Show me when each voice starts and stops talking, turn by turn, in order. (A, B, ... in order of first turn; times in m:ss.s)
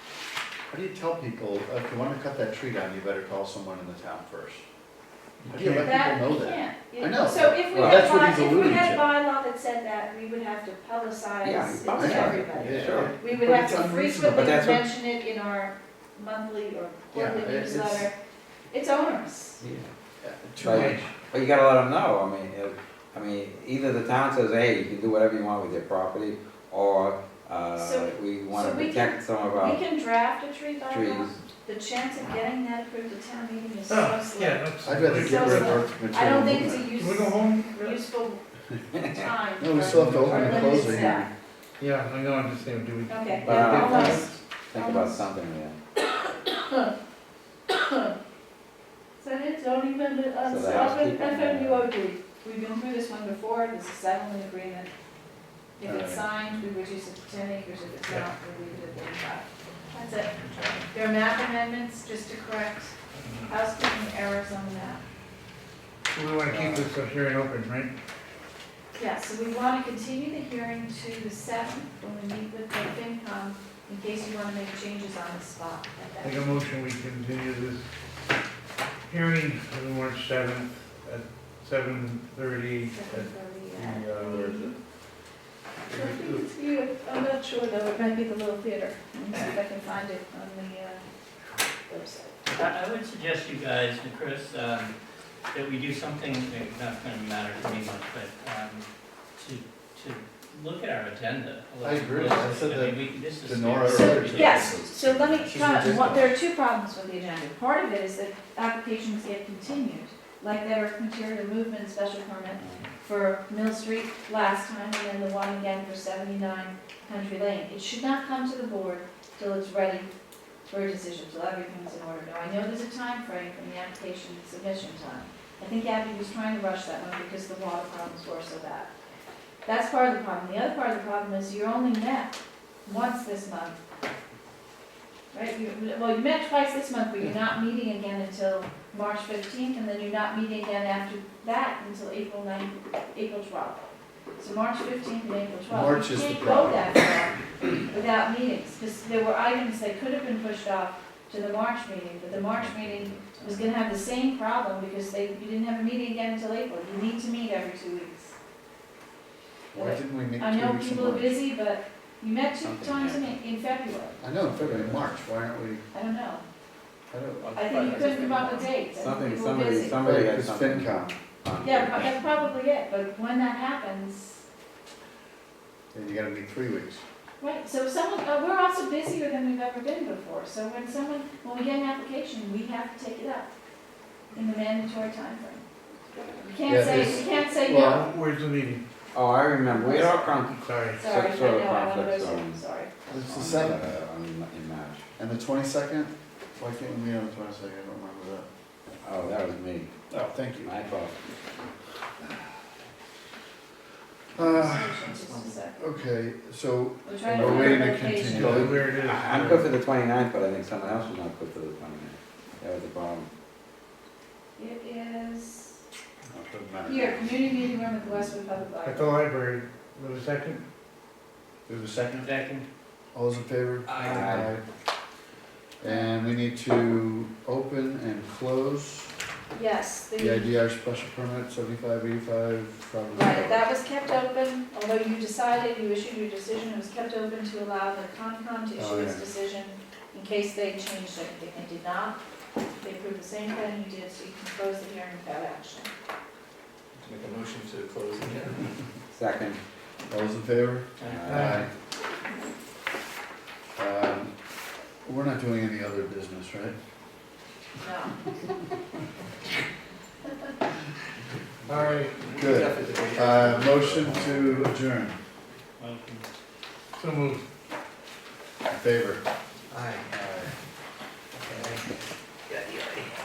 0:00.7-0:04.6 A
0:05.5-0:05.9 B
0:05.5-0:09.0 A
0:05.8-0:18.1 C
0:07.7-0:08.2 D
0:08.3-0:09.0 E
0:11.4-0:13.1 D
0:11.9-0:14.5 A
0:14.2-0:14.9 D
0:17.1-0:18.1 A
0:18.7-0:19.6 C
0:19.6-0:19.9 D
0:20.2-0:21.1 A
0:20.6-0:29.8 D
0:20.6-0:21.0 B
0:27.7-0:38.4 C
0:30.9-0:31.4 D
0:33.9-0:35.9 B
0:34.8-0:36.9 A
0:36.9-0:38.0 B
0:39.0-0:41.3 C
0:39.6-0:41.3 A
0:39.7-0:41.1 B
0:41.8-0:44.3 B
0:43.1-0:45.2 C
0:43.4-0:45.8 D
0:45.9-0:46.9 C
0:47.7-0:48.1 C
0:49.2-0:54.9 C
0:50.4-0:51.9 D
0:55.8-1:02.9 C
0:55.8-0:56.2 A
1:03.2-1:03.5 B
1:03.5-1:05.0 C
1:06.1-1:07.9 B
1:06.5-1:06.9 A
1:08.9-1:16.5 C
1:16.2-1:17.8 B
1:19.1-1:24.7 B
1:22.9-1:24.8 C
1:25.9-1:31.0 C
1:31.9-1:32.4 C
1:32.5-1:34.9 E
1:35.5-1:38.8 E
1:39.4-1:44.9 E
1:41.8-1:46.4 A
1:43.8-2:00.1 C
2:00.7-2:08.9 C
2:09.6-2:13.8 C
2:15.3-2:23.8 C
2:24.4-2:38.3 C
2:25.7-2:27.0 A
2:32.6-2:33.6 E
2:39.7-2:41.4 A
2:39.7-2:44.2 C
2:42.6-2:43.4 D
2:44.2-2:45.8 A
2:44.5-2:45.0 D
2:45.9-2:46.4 C
2:47.1-2:48.0 A
2:47.4-2:48.6 E
2:47.4-2:48.6 F
2:47.5-2:50.0 C
2:49.0-2:52.1 D
2:49.9-2:51.1 A
2:51.6-2:54.4 C
2:55.9-2:57.0 A
2:57.4-3:03.5 C
3:04.3-3:05.6 C
3:06.2-3:08.1 C
3:06.6-3:08.1 A
3:07.7-3:08.8 B
3:09.1-3:15.0 D
3:09.7-3:10.3 C
3:10.5-3:11.0 B
3:10.9-3:12.9 C
3:13.1-3:13.9 A
3:15.2-3:18.5 A
3:19.0-3:19.9 D
3:20.1-3:20.7 A
3:20.6-3:21.2 D
3:24.3-3:25.8 C
3:24.3-3:25.2 A
3:25.8-3:28.8 A
3:27.0-3:28.5 C
3:27.4-3:27.9 D
3:28.1-3:29.7 B
3:28.5-3:33.3 D
3:34.6-3:35.8 C
3:36.3-3:37.4 A
3:36.8-3:39.2 C
3:38.8-3:40.6 B
3:41.7-3:42.3 A
3:42.2-3:42.6 E
3:43.1-3:44.6 A
3:44.0-3:44.5 D
3:45.8-3:49.1 A
3:49.5-3:50.5 C
3:50.2-3:53.6 A
3:53.1-4:02.2 C
3:58.8-3:59.3 A
4:02.8-4:05.9 C
4:07.0-4:08.7 F
4:09.1-4:09.6 D
4:10.1-4:11.7 A
4:11.0-4:11.3 E
4:11.0-4:11.6 D
4:11.3-4:11.6 B
4:13.8-4:14.3 A
4:15.0-4:16.8 A
4:17.8-4:18.2 C
4:21.7-4:22.2 B
4:22.2-4:24.6 F
4:22.2-4:25.2 A
4:25.8-4:26.3 E
4:27.0-4:27.4 B
4:28.7-4:29.2 A
4:32.5-4:33.1 F